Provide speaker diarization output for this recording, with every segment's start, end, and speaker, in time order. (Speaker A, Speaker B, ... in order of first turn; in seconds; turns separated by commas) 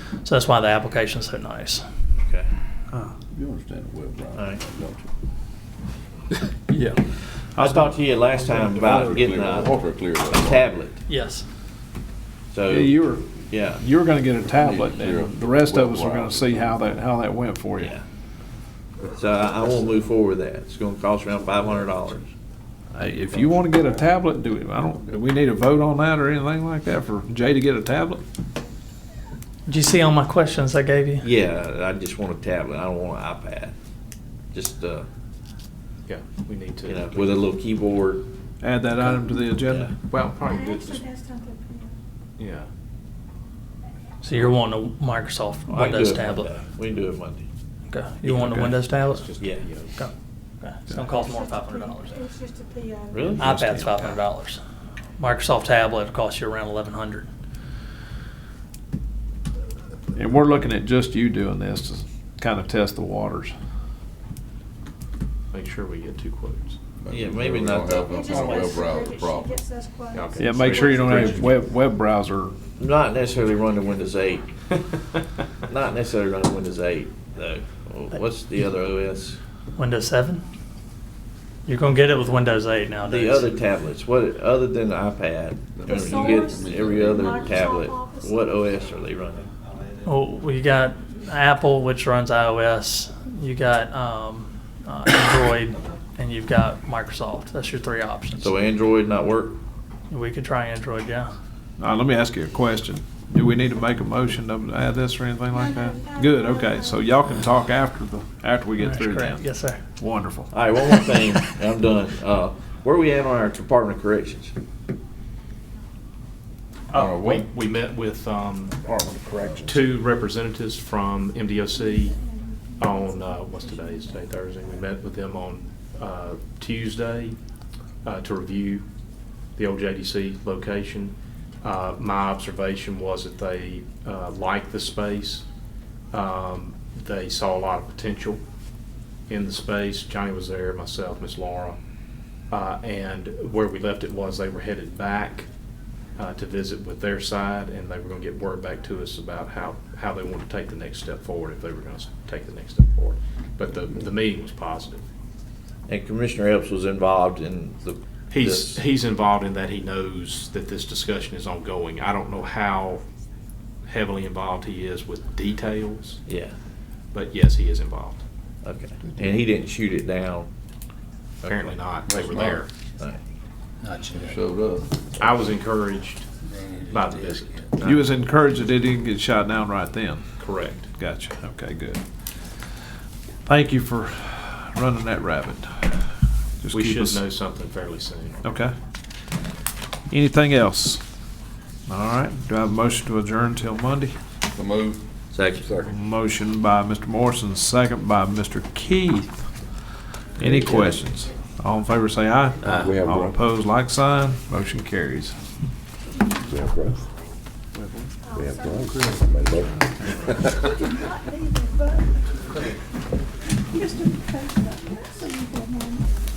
Speaker A: 0.2-1.8, Speaker B: 3.3-5.1, Speaker C: 4.3-4.6, Speaker D: 6.7-9.2, Speaker C: 7.6-11.0, Speaker B: 8.7-10.8, Speaker A: 11.1-11.4, Speaker C: 12.5-13.0, Speaker D: 12.7-17.9, Speaker C: 13.5-13.8, Speaker B: 14.5-16.8, Speaker C: 19.1-22.3, Speaker D: 22.9-28.2, Speaker A: 29.7-31.2, Speaker C: 31.2-33.7, Speaker C: 34.5-35.1, Speaker E: 36.1-37.5, Speaker C: 36.8-38.2, Speaker D: 38.6-39.9, Speaker C: 39.6-39.9, Speaker E: 40.1-41.0, Speaker F: 40.4-41.9, Speaker E: 42.4-42.7, Speaker A: 44.2-46.5, Speaker C: 45.7-47.4, Speaker A: 47.9-49.4, Speaker C: 48.2-48.6, Speaker D: 48.4-48.7, Speaker E: 48.9-49.9, Speaker C: 49.4-49.7, Speaker A: 50.0-52.2, Speaker F: 51.1-53.3, Speaker C: 53.1-53.5, Speaker D: 53.3-54.2, Speaker A: 53.4-54.6, Speaker A: 55.2-57.3, Speaker D: 60.1-63.5, Speaker E: 65.5-66.8, Speaker B: 67.0-69.5, Speaker C: 67.1-68.3, Speaker F: 68.1-71.2, Speaker E: 70.1-71.4, Speaker D: 70.4-72.6, Speaker B: 71.1-71.6, Speaker C: 72.8-74.5, Speaker C: 75.7-79.4, Speaker A: 79.8-80.4, Speaker A: 81.7-83.5, Speaker C: 83.0-89.5, Speaker B: 85.8-87.6, Speaker F: 85.8-88.6, Speaker A: 90.0-98.6, Speaker C: 98.4-99.6, Speaker A: 100.1-101.3, Speaker D: 101.8-109.4, Speaker F: 105.5-107.0, Speaker A: 108.8-109.8, Speaker D: 110.0-110.5, Speaker C: 110.5-114.5, Speaker B: 116.9-117.5, Speaker E: 116.9-118.8, Speaker B: 118.8-119.8, Speaker E: 119.6-122.2, Speaker F: 121.8-124.1, Speaker E: 122.8-127.3, Speaker E: 128.0-128.8, Speaker E: 129.6-135.4, Speaker E: 136.1-138.4, Speaker E: 139.3-141.8, Speaker E: 142.5-145.5, Speaker E: 146.2-155.0, Speaker C: 155.9-158.8, Speaker E: 158.3-163.0, Speaker E: 163.8-166.2, Speaker C: 166.3-166.5, Speaker E: 167.1-168.2, Speaker C: 168.6-170.5, Speaker C: 171.4-171.8, Speaker E: 171.4-172.7, Speaker B: 172.1-172.6, Speaker B: 174.2-174.9, Speaker E: 175.2-176.2, Speaker E: 176.9-177.7, Speaker D: 177.8-180.2, Speaker E: 180.4-180.9, Speaker D: 181.0-182.0, Speaker D: 183.5-186.1, Speaker D: 186.6-187.2, Speaker E: 186.7-188.4, Speaker D: 188.4-188.7, Speaker D: 190.1-191.0, Speaker D: 191.9-194.1, Speaker B: 194.5-195.0, Speaker C: 195.3-195.7, Speaker B: 195.6-195.9, Speaker D: 195.8-199.5, Speaker D: 200.4-205.3, Speaker C: 200.4-201.0, Speaker C: 202.6-202.9, Speaker B: 202.9-203.3, Speaker D: 207.7-208.1, Speaker F: 208.2-209.1, Speaker D: 208.8-209.2, Speaker F: 210.4-212.2, Speaker F: 213.7-216.0